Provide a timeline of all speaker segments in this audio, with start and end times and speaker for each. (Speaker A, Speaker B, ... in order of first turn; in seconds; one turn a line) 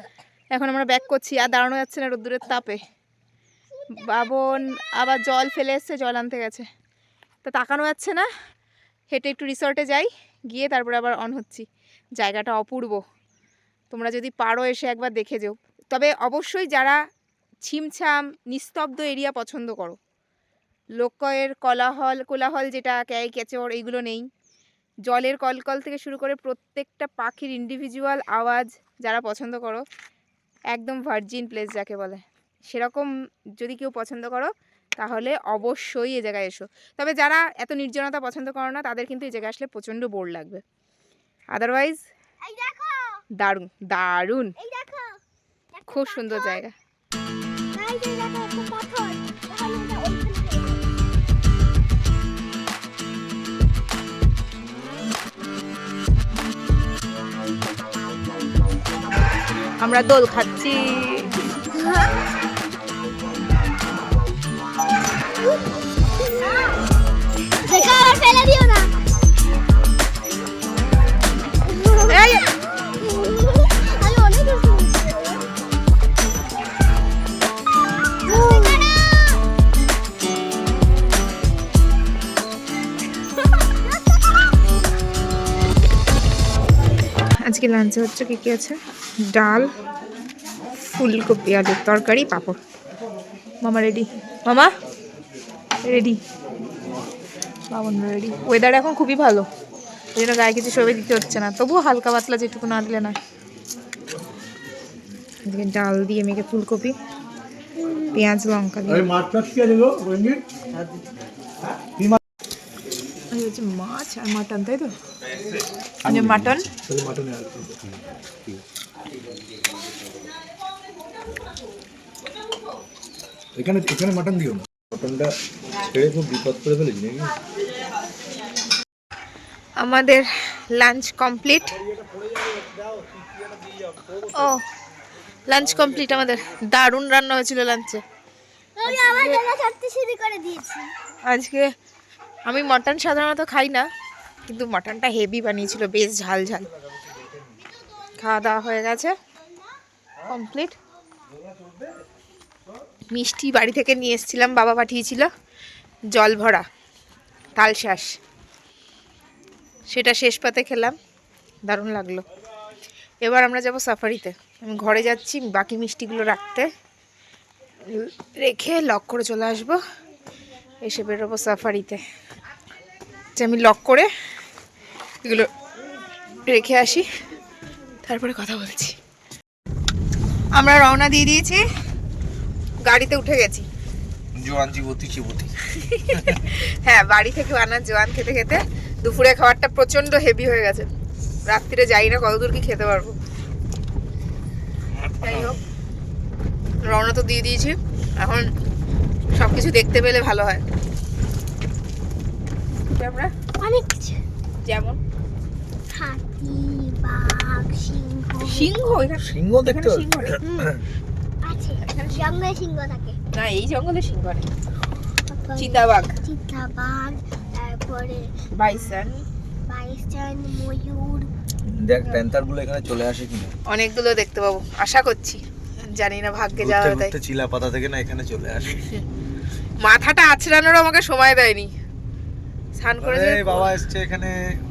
Speaker A: 0.5-2.8
Speaker B: 3.8-4.8
Speaker A: 4.0-6.7
Speaker A: 7.4-8.3
Speaker A: 9.1-13.0
Speaker A: 13.9-17.0
Speaker A: 17.7-20.0
Speaker A: 21.0-24.3
Speaker A: 25.1-29.9
Speaker A: 30.7-40.6
Speaker A: 41.5-42.0
Speaker B: 42.4-43.2
Speaker A: 43.4-44.5
Speaker B: 44.6-45.2
Speaker B: 45.7-46.6
Speaker A: 45.9-46.7
Speaker B: 47.7-50.8
Speaker A: 59.8-61.3
Speaker B: 61.7-62.1
Speaker B: 66.2-66.8
Speaker B: 67.6-68.9
Speaker B: 71.7-75.5
Speaker A: 72.1-72.4
Speaker B: 78.2-79.5
Speaker A: 78.3-78.8
Speaker A: 87.5-88.8
Speaker A: 89.3-89.7
Speaker A: 90.9-92.6
Speaker A: 93.6-94.7
Speaker A: 95.8-96.2
Speaker A: 97.7-99.5
Speaker A: 100.2-103.2
Speaker A: 105.5-107.0
Speaker A: 108.1-109.1
Speaker C: 108.9-110.5
Speaker A: 113.3-114.9
Speaker A: 116.0-116.7
Speaker C: 116.0-117.9
Speaker C: 123.6-127.4
Speaker A: 129.8-131.8
Speaker A: 134.2-134.6
Speaker A: 135.5-138.0
Speaker B: 138.8-140.9
Speaker A: 138.8-139.4
Speaker A: 141.2-141.7
Speaker A: 142.5-143.9
Speaker A: 144.5-146.7
Speaker A: 148.2-149.2
Speaker A: 150.2-150.8
Speaker A: 153.1-155.3
Speaker A: 156.1-156.7
Speaker A: 157.6-158.2
Speaker A: 159.9-161.0
Speaker A: 161.7-162.2
Speaker A: 163.2-166.7
Speaker A: 167.9-169.8
Speaker A: 170.8-172.0
Speaker A: 173.4-174.1
Speaker A: 175.2-175.5
Speaker A: 176.5-177.1
Speaker A: 178.1-179.0
Speaker A: 180.6-181.6
Speaker A: 182.9-183.7
Speaker C: 184.3-185.6
Speaker A: 185.7-190.9
Speaker C: 186.1-186.4
Speaker A: 191.5-193.2
Speaker A: 195.2-195.6
Speaker A: 196.8-198.5
Speaker A: 199.3-200.6
Speaker A: 202.9-203.3
Speaker B: 203.6-204.2
Speaker A: 204.6-205.0
Speaker B: 205.9-208.7
Speaker A: 208.4-210.4
Speaker C: 209.2-210.8
Speaker B: 210.4-210.7
Speaker B: 211.4-213.2
Speaker A: 211.8-212.3
Speaker A: 213.3-214.5
Speaker B: 215.3-221.3
Speaker A: 215.6-216.2
Speaker A: 218.5-219.2
Speaker C: 221.6-223.6
Speaker A: 223.7-227.1
Speaker C: 226.6-229.0
Speaker A: 229.8-231.7
Speaker A: 232.8-233.8
Speaker C: 233.0-234.4